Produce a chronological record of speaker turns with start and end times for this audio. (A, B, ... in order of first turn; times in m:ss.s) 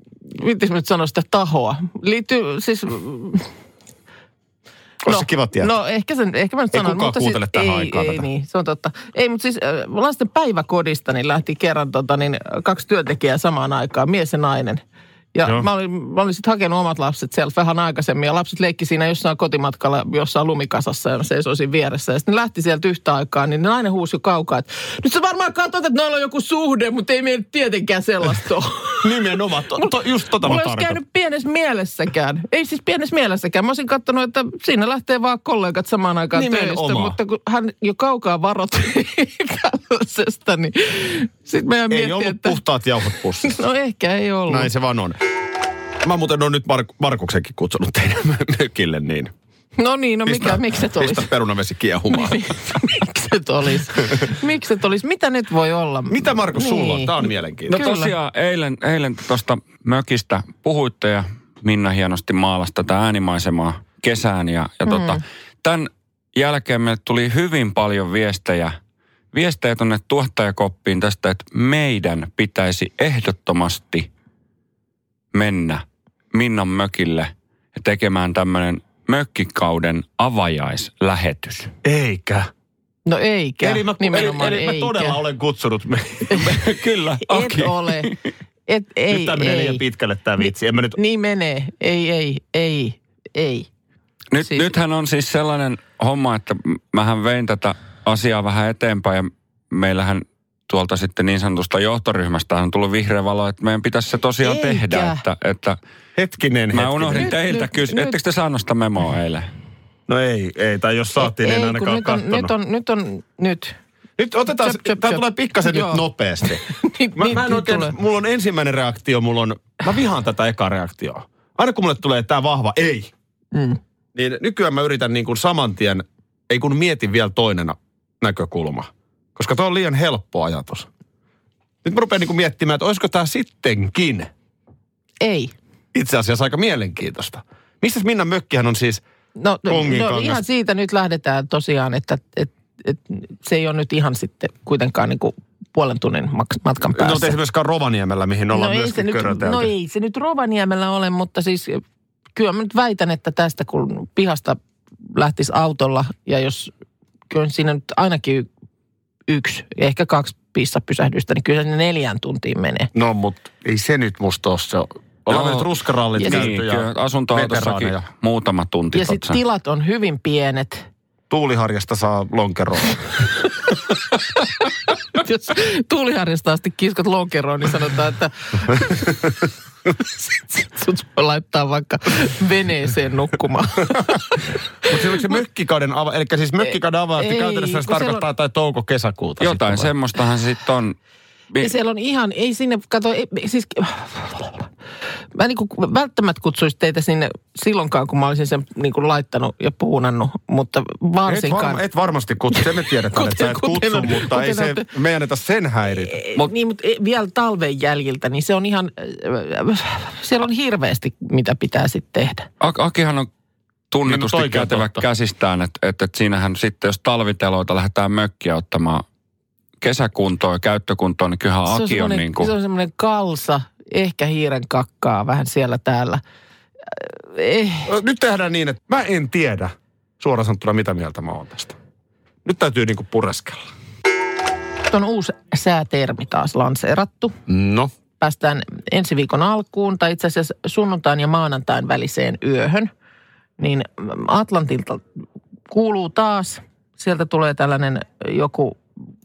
0:00.3-0:03.5 A
0:05.0-0:05.7 B
0:05.0-0:14.8 A
0:06.7-0:08.2 B
0:15.3-0:29.2 A
0:29.0-0:31.0 B
0:30.4-0:42.6 A
0:36.3-0:37.2 B
0:41.9-0:43.6 B
0:43.4-0:44.7 A
0:44.5-0:45.2 B
0:46.0-0:49.3 B
0:49.8-0:51.3 A
0:50.2-0:52.5 B
0:52.1-0:58.1 A
0:56.1-0:57.8 B
0:57.7-1:08.8 C
1:04.9-1:05.2 A
1:09.3-1:14.1 C
1:15.3-1:21.7 C
1:21.8-1:22.5 B
1:23.1-1:25.2 A
1:23.6-1:28.1 B
1:26.3-1:26.5 A
1:27.2-1:29.8 A
1:29.1-1:31.0 B
1:30.4-1:33.7 A
1:34.3-1:45.8 C
1:34.4-1:34.7 A
1:44.4-1:45.2 A
1:46.2-1:47.4 B
1:46.7-1:49.5 C
1:47.2-1:48.2 A
1:50.1-1:52.5 B
1:51.2-1:53.8 A
1:54.2-1:56.6 B
1:54.5-1:56.0 A
1:56.6-1:57.9 A
1:57.2-2:03.1 B
2:03.5-2:03.8 A
2:04.1-2:10.9 B
2:11.8-2:14.3 B
2:15.2-2:15.5 A
2:15.9-2:19.0 B
2:19.4-2:27.4 A
2:19.7-2:20.4 B
2:26.9-2:29.7 B
2:28.5-2:31.8 A
2:32.3-2:34.6 A
2:35.1-2:36.7 A
2:37.3-2:38.5 A
2:39.3-2:42.9 A
2:42.9-2:48.0 B
2:45.3-2:45.6 C
2:46.2-2:46.4 A
2:46.2-2:49.4 C
2:48.9-2:50.8 A
2:51.3-2:53.1 B
2:55.1-2:59.3 A
3:00.0-3:05.3 A
3:04.8-3:09.9 B
3:07.2-3:08.2 A
3:09.4-3:11.0 C
3:11.6-3:14.7 A
3:15.3-3:21.8 A
3:21.2-3:26.2 B
3:22.5-3:24.9 A
3:26.1-3:32.5 A
3:32.6-3:33.3 C
3:33.9-3:39.0 C
3:34.1-3:35.0 B
3:39.8-3:42.5 C
3:41.7-3:46.2 A
3:46.9-3:47.9 A
3:47.9-3:51.8 B
3:52.4-3:53.6 B
3:54.9-3:57.3 A
3:57.5-3:57.9 B
3:58.2-4:02.9 A
4:03.6-4:05.0 A
4:05.7-4:08.8 A